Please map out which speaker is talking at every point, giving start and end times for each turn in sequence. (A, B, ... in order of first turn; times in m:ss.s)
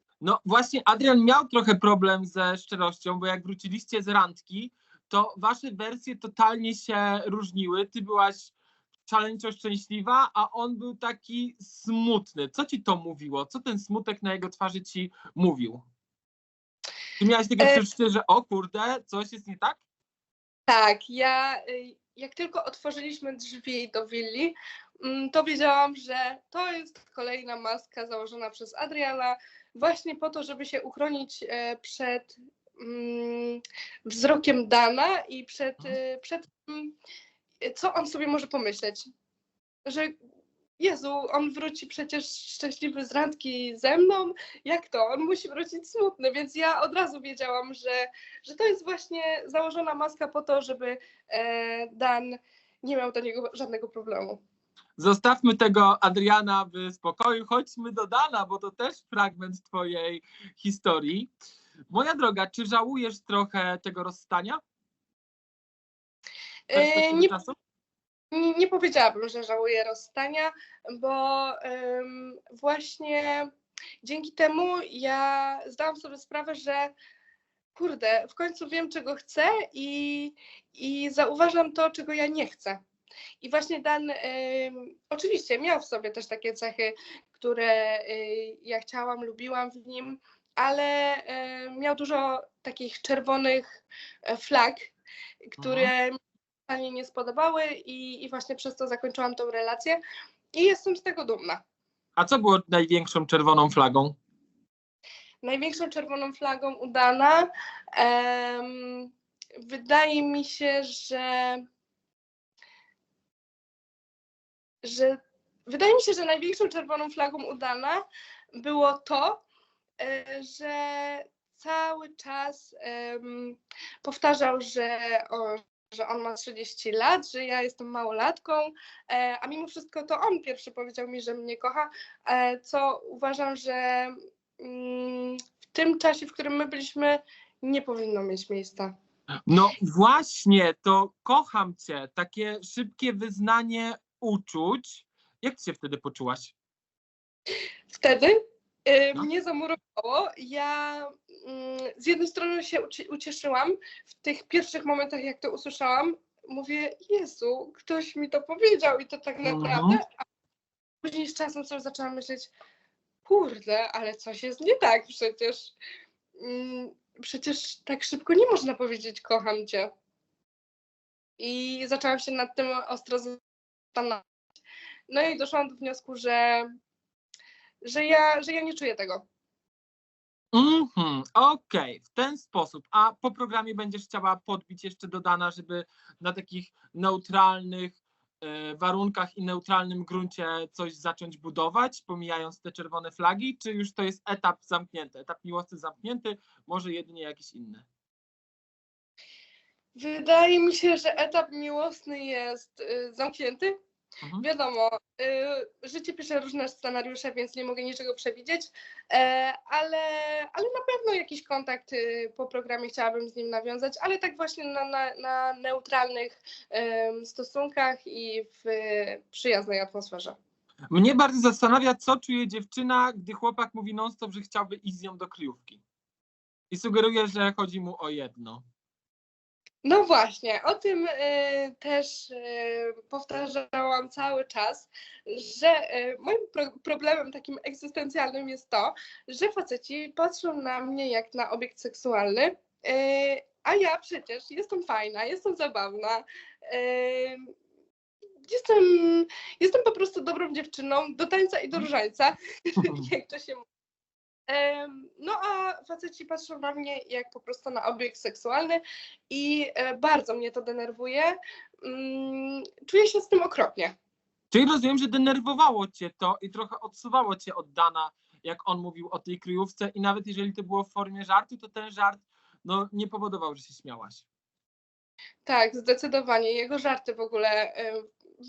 0:00.2-0:08.5 A
0:09.0-0:15.8 A
0:17.2-0:19.8 A
0:20.7-0:36.9 B
0:37.6-0:39.1 B
0:39.8-0:40.1 B
0:40.8-0:54.4 B
0:55.0-1:01.3 A
1:01.9-1:04.6 A
1:06.7-1:07.3 B
1:06.7-1:07.5 A
1:08.3-1:13.5 B
1:14.0-1:16.9 B
1:17.7-1:22.8 B
1:23.4-1:34.9 B
1:35.5-1:36.2 B
1:35.6-1:35.9 A
1:36.7-1:40.0 B
1:40.5-1:41.6 B
1:42.2-1:44.2 A
1:45.4-1:49.1 B
1:49.6-1:51.6 B
1:54.8-1:58.0 B
1:58.6-1:59.4 B
2:00.0-2:18.9 B
2:19.5-2:26.5 A
2:27.9-2:40.0 B
2:39.4-2:40.0 A
2:41.0-2:42.5 B
2:43.2-2:45.7 B
2:46.4-2:49.9 B
2:51.4-2:54.3 B
2:55.1-2:56.7 B
2:57.8-2:59.2 B
3:00.5-3:17.8 A
3:19.9-3:23.7 B
3:24.4-3:40.4 B
3:40.9-3:45.8 A
3:46.7-3:48.6 A
3:49.8-4:07.5 B
4:08.5-4:13.6 B
4:12.8-4:13.1 A
4:14.5-4:23.9 B
4:24.5-4:34.2 A
4:35.4-4:38.1 B